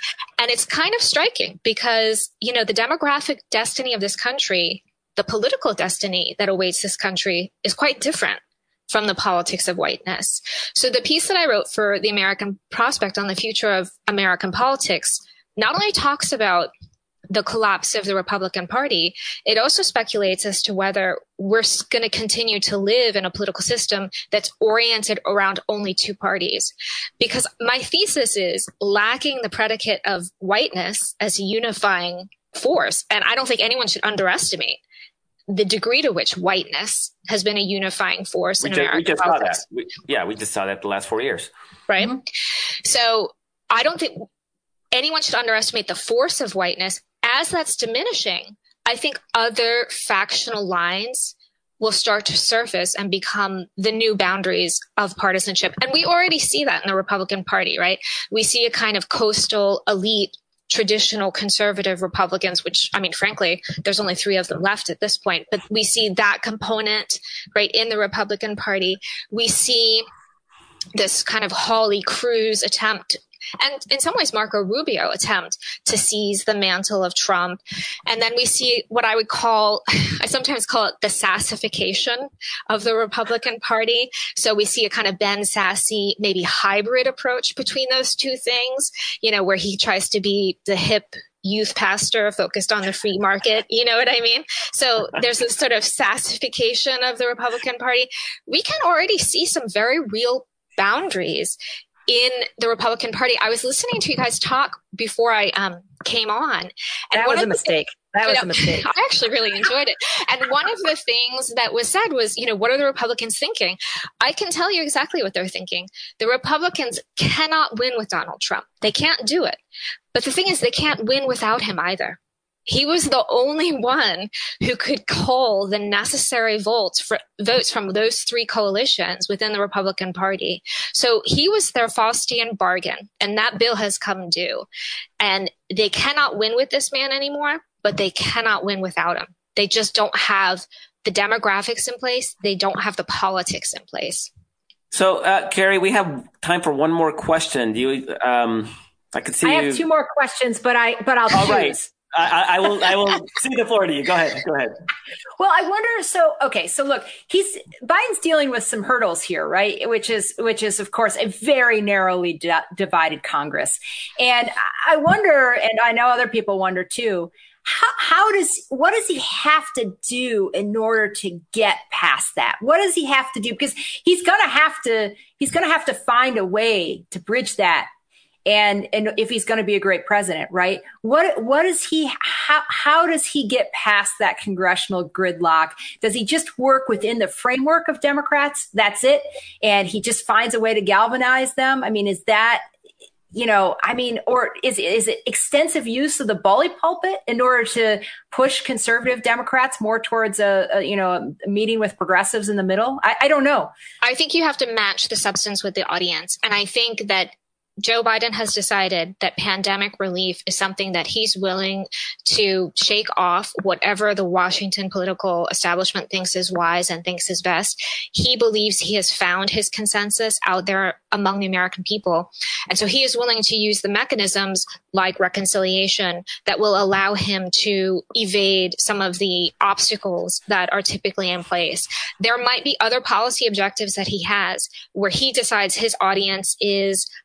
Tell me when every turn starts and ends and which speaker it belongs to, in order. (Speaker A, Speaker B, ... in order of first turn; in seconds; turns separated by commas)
Speaker A: 0.4-16.7, Speaker A: 17.3-34.8, Speaker A: 35.5-39.6, Speaker B: 38.6-41.5, Speaker A: 41.9-42.2, Speaker A: 42.8-44.2, Speaker A: 44.9-70.0, Speaker A: 70.9-107.8, Speaker C: 107.1-108.9, Speaker A: 108.3-119.6, Speaker A: 120.1-134.7, Speaker A: 135.2-144.3, Speaker B: 144.9-149.8, Speaker C: 149.4-151.8, Speaker B: 151.3-154.8, Speaker C: 155.4-177.9, Speaker C: 178.4-192.6, Speaker C: 193.3-203.7, Speaker A: 204.0-237.1